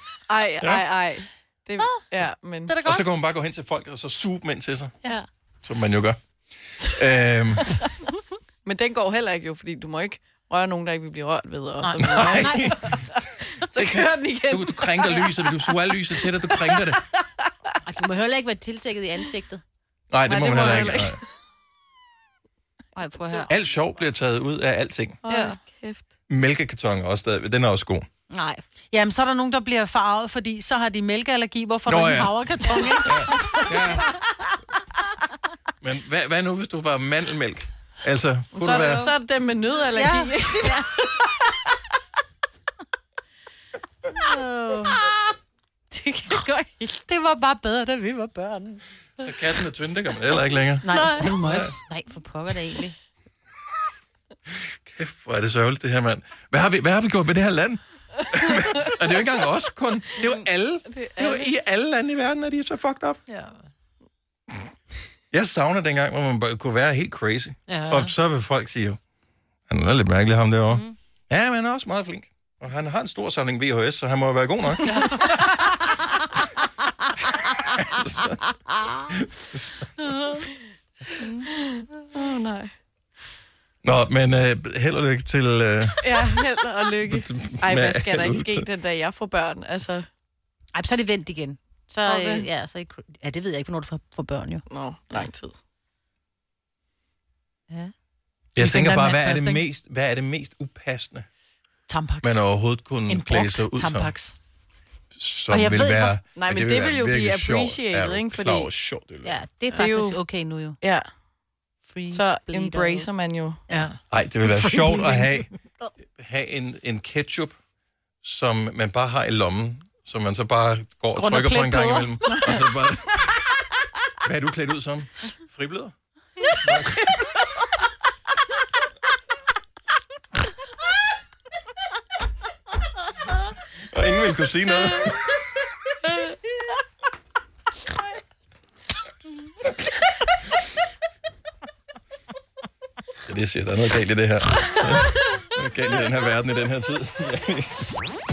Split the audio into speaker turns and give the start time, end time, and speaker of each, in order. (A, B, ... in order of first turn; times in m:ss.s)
0:00.3-0:02.8 A
0:02.7-0:03.1 B
0:02.8-0:05.0 C
0:05.6-0:06.2 C
0:06.7-0:07.9 C
0:08.6-0:16.9 A
0:11.8-0:12.4 B
0:12.0-0:17.0 C
0:17.8-0:19.6 D
0:20.1-0:21.2 C
0:20.3-0:21.2 A
0:23.0-0:23.5 D
0:23.5-0:25.2 C
0:25.2-0:26.1 A
0:25.3-0:25.6 D
0:26.3-0:28.1 C
0:28.3-0:28.6 D
0:28.9-0:34.2 B
0:31.9-0:32.4 C
0:33.0-0:34.2 C
0:35.8-0:39.1 C
0:38.5-0:41.3 A
0:38.7-0:39.1 D
0:40.0-0:41.0 D
0:44.2-0:45.0 B
0:44.2-0:45.0 D
0:45.9-0:47.1 D
0:47.1-0:48.8 B
0:49.2-0:51.8 C
0:50.8-0:53.0 D
0:50.9-0:51.4 B
0:54.9-1:03.2 C
1:00.9-1:01.5 A
1:03.3-1:03.6 B
1:05.3-1:09.0 C
1:07.7-1:08.1 B
1:09.7-1:15.0 C
1:14.9-1:15.5 A
1:17.6-1:18.4 C
1:19.1-1:20.1 C
1:20.0-1:20.4 D
1:21.2-1:21.5 D
1:21.6-1:22.7 A
1:23.8-1:26.4 C
1:26.0-1:30.1 A
1:27.0-1:28.6 C
1:30.8-1:34.6 D
1:32.1-1:32.4 B
1:34.7-1:35.6 A
1:38.6-1:41.3 C
1:38.6-1:39.6 B
1:41.9-1:44.4 B
1:42.2-1:44.1 C
1:45.2-1:49.4 C
1:45.5-1:46.2 B
1:46.4-1:48.7 A
1:49.2-1:50.8 D
1:49.7-1:50.3 A
1:51.8-1:53.2 D
1:52.1-1:53.6 A
1:53.7-1:55.4 B
1:54.1-1:55.5 C
1:56.2-1:57.6 C
1:58.2-2:03.6 C
2:01.2-2:02.1 B
2:04.2-2:07.1 C
2:13.8-2:15.4 C
2:23.3-2:27.9 C